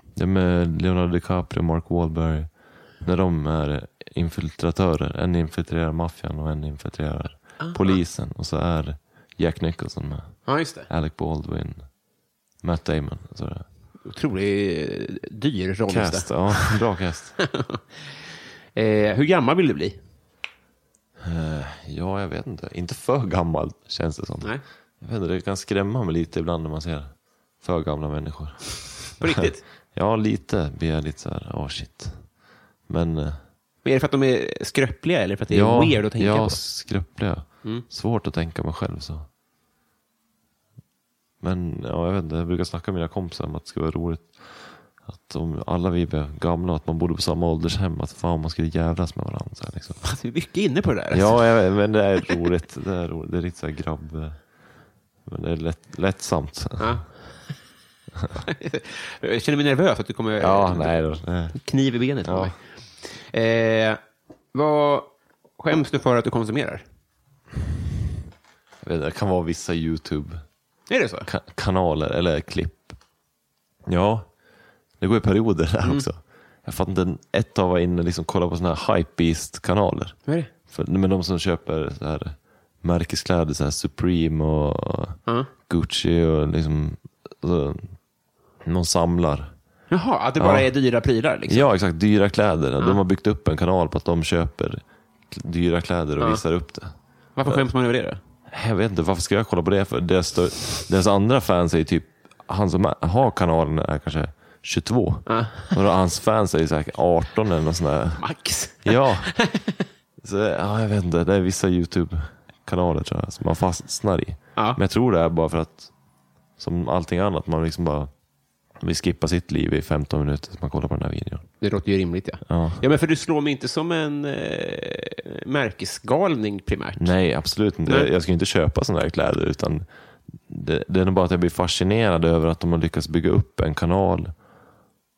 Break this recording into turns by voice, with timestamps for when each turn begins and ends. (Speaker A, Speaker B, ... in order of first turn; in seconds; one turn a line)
Speaker A: 0.2-11.9
Speaker B: 7.6-8.0
Speaker B: 10.5-10.9
Speaker A: 12.6-13.7
Speaker B: 14.1-16.8
Speaker A: 15.9-17.4
Speaker B: 17.4-17.8
Speaker B: 18.8-20.0
Speaker A: 21.2-32.3
Speaker B: 29.2-29.6
Speaker A: 32.9-33.4
Speaker B: 33.8-36.6
Speaker A: 35.5-39.3
Speaker A: 41.4-50.0
Speaker B: 50.0-51.4
Speaker A: 51.1-54.4
Speaker A: 55.3-57.0
Speaker B: 56.8-57.1
Speaker B: 58.4-60.9
Speaker A: 60.4-61.6
Speaker B: 61.6-64.0
Speaker A: 62.2-62.5
Speaker B: 64.5-66.8
Speaker A: 68.8-70.4
Speaker B: 70.9-71.3
Speaker A: 71.3-73.0
Speaker A: 73.9-74.3
Speaker A: 75.0-88.0
Speaker A: 88.6-89.5
Speaker B: 89.9-91.7
Speaker A: 90.4-90.7
Speaker A: 91.5-96.9
Speaker B: 96.2-96.4
Speaker B: 97.4-98.2
Speaker A: 98.5-108.2
Speaker B: 105.3-105.8
Speaker B: 108.2-109.8
Speaker A: 108.8-109.3
Speaker A: 110.2-115.9
Speaker A: 116.6-118.1
Speaker A: 118.8-121.5
Speaker B: 121.6-127.1
Speaker A: 122.5-122.8
Speaker A: 127.0-129.9
Speaker B: 127.8-128.1
Speaker A: 130.4-134.3